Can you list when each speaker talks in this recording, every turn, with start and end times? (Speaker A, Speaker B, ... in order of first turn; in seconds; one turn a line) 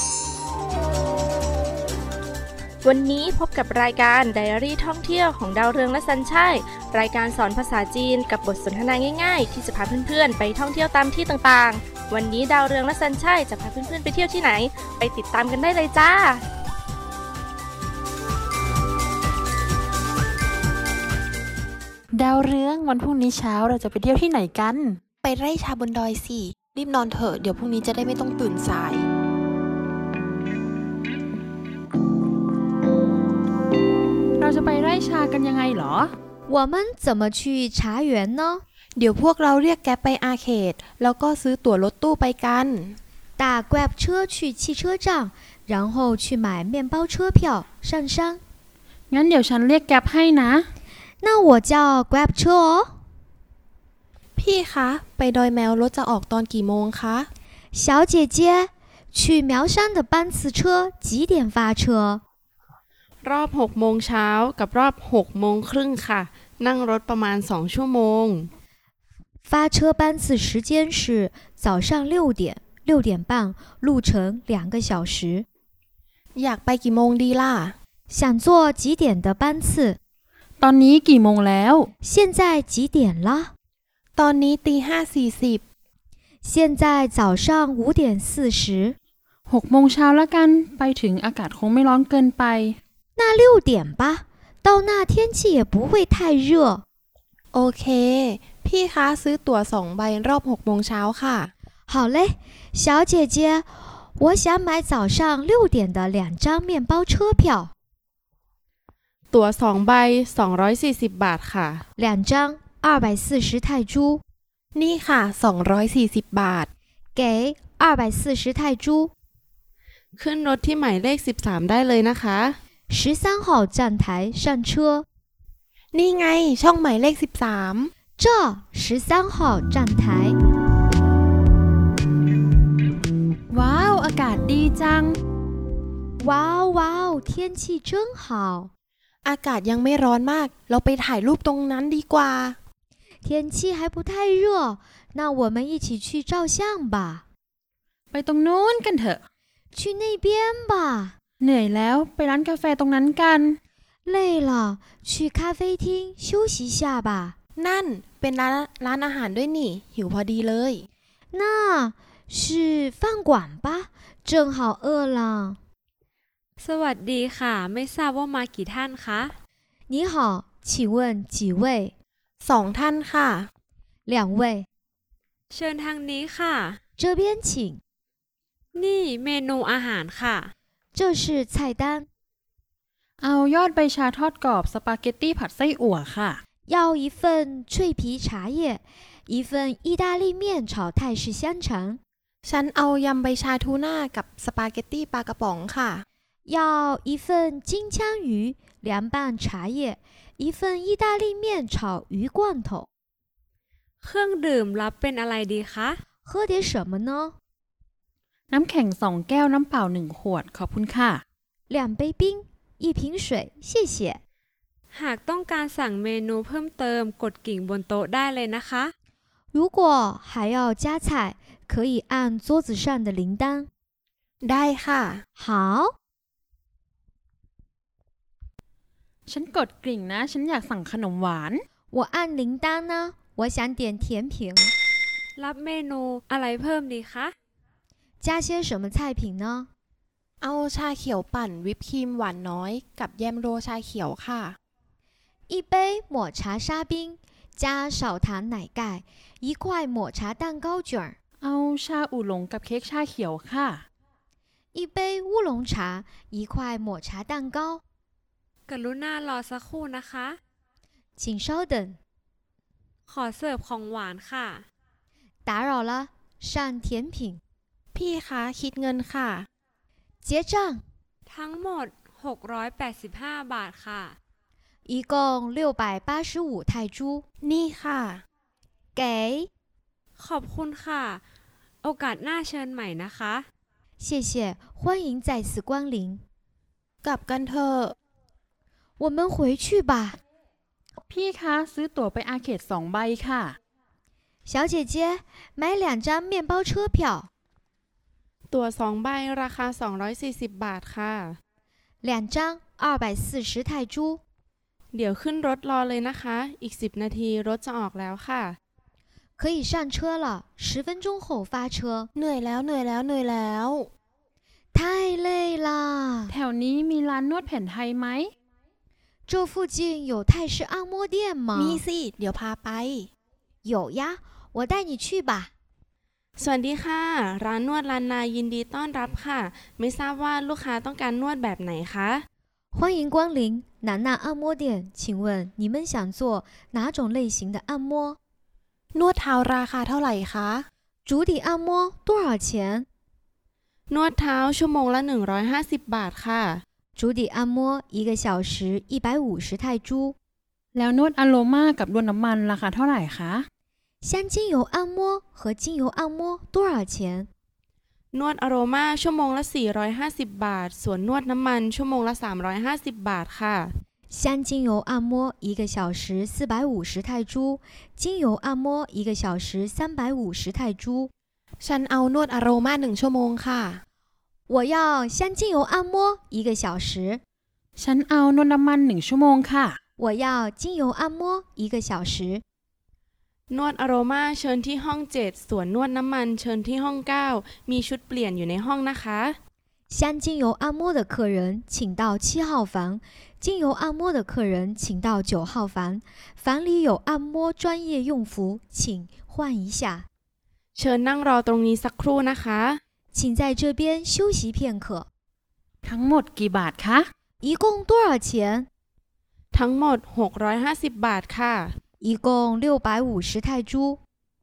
Speaker A: 2.8-8.7
Speaker A: 9.4-11.1
Speaker A: 12.1-16.2
Speaker B: 22.1-25.0
Speaker C: 25.2-29.0
Speaker B: 34.4-36.1
Speaker D: 36.5-38.6
Speaker C: 39.0-43.0
Speaker D: 43.4-48.4
Speaker B: 49.1-50.7
Speaker D: 51.2-53.0
Speaker C: 54.4-57.3
Speaker D: 57.7-62.2
Speaker E: 63.2-68.5
Speaker D: 69.5-75.5
Speaker C: 76.3-77.7
Speaker D: 78.1-80.0
Speaker B: 80.6-81.9
Speaker D: 82.0-83.5
Speaker C: 84.2-85.6
Speaker D: 86.4-89.0
Speaker B: 89.5-92.8
Speaker D: 93.2-96.8
Speaker C: 97.5-101.5
Speaker D: 101.9-107.7
Speaker E: 109.3-111.8
Speaker D: 112.0-114.2
Speaker C: 114.7-116.7
Speaker D: 117.1-119.1
Speaker E: 120.2-122.6
Speaker D: 122.9-125.0
Speaker C: 125.9-127.9
Speaker D: 128.2-130.4
Speaker B: 133.5-135.2
Speaker D: 136.2-138.7
Speaker C: 139.2-142.6
Speaker D: 143.2-147.2
Speaker B: 148.1-149.2
Speaker D: 149.7-151.2
Speaker B: 151.4-153.6
Speaker D: 154.1-157.3
Speaker C: 157.6-160.9
Speaker D: 161.3-165.6
Speaker F: 166.6-169.3
Speaker D: 169.9-171.9
Speaker C: 172.4-173.5
Speaker D: 174.1-174.7
Speaker F: 175.5-176.8
Speaker D: 177.0-177.8
Speaker F: 178.7-180.5
Speaker D: 180.9-182.1
Speaker B: 183.2-186.4
Speaker D: 186.7-192.0
Speaker C: 192.4-196.0
Speaker D: 196.5-202.9
Speaker F: 204.0-206.0
Speaker D: 206.2-207.3
Speaker B: 208.5-211.2
Speaker D: 211.7-214.2
Speaker F: 214.9-218.9
Speaker D: 219.5-223.7
Speaker C: 224.4-225.2
Speaker D: 225.4-225.9
Speaker B: 229.2-231.6
Speaker D: 231.9-234.7
Speaker F: 235.3-237.3
Speaker D: 238.2-239.7
Speaker C: 240.4-244.6
Speaker D: 245.5-251.2
Speaker B: 251.4-253.8
Speaker D: 254.7-257.8
Speaker F: 258.7-260.4
Speaker D: 261.2-262.0
Speaker F: 263.1-264.6
Speaker D: 265.4-267.4
Speaker C: 267.9-269.5
Speaker D: 270.2-270.8
Speaker F: 271.3-274.2
Speaker D: 274.9-277.2
Speaker C: 277.4-278.2
Speaker D: 278.9-279.5
Speaker F: 280.2-281.2
Speaker F: 281.8-283.5
Speaker D: 284.0-286.2
Speaker C: 287.0-287.9
Speaker D: 289.0-290.2
Speaker B: 291.0-293.6
Speaker D: 294.4-297.3
Speaker E: 298.5-301.4
Speaker D: 302.0-304.2
Speaker E: 304.9-308.6
Speaker D: 309.4-312.1
Speaker C: 312.1-313.9
Speaker D: 314.7-316.3
Speaker B: 316.3-318.3
Speaker D: 319.3-321.8
Speaker C: 321.5-323.1
Speaker D: 323.6-325.5
Speaker E: 326.4-332.2
Speaker D: 332.7-338.2
Speaker C: 338.9-340.7
Speaker D: 341.1-342.9
Speaker E: 343.9-346.6
Speaker D: 346.9-350.1
Speaker B: 350.7-353.5
Speaker D: 354.0-357.3
Speaker E: 358.1-363.7
Speaker D: 364.1-371.1
Speaker C: 371.6-373.8
Speaker D: 374.5-377.2
Speaker B: 377.8-379.8
Speaker D: 380.0-382.4
Speaker E: 383.5-389.4
Speaker D: 389.9-400.1
Speaker E: 400.8-402.8
Speaker D: 403.1-405.1
Speaker B: 405.8-407.1
Speaker D: 407.4-408.7
Speaker E: 409.5-411.8
Speaker D: 412.0-414.0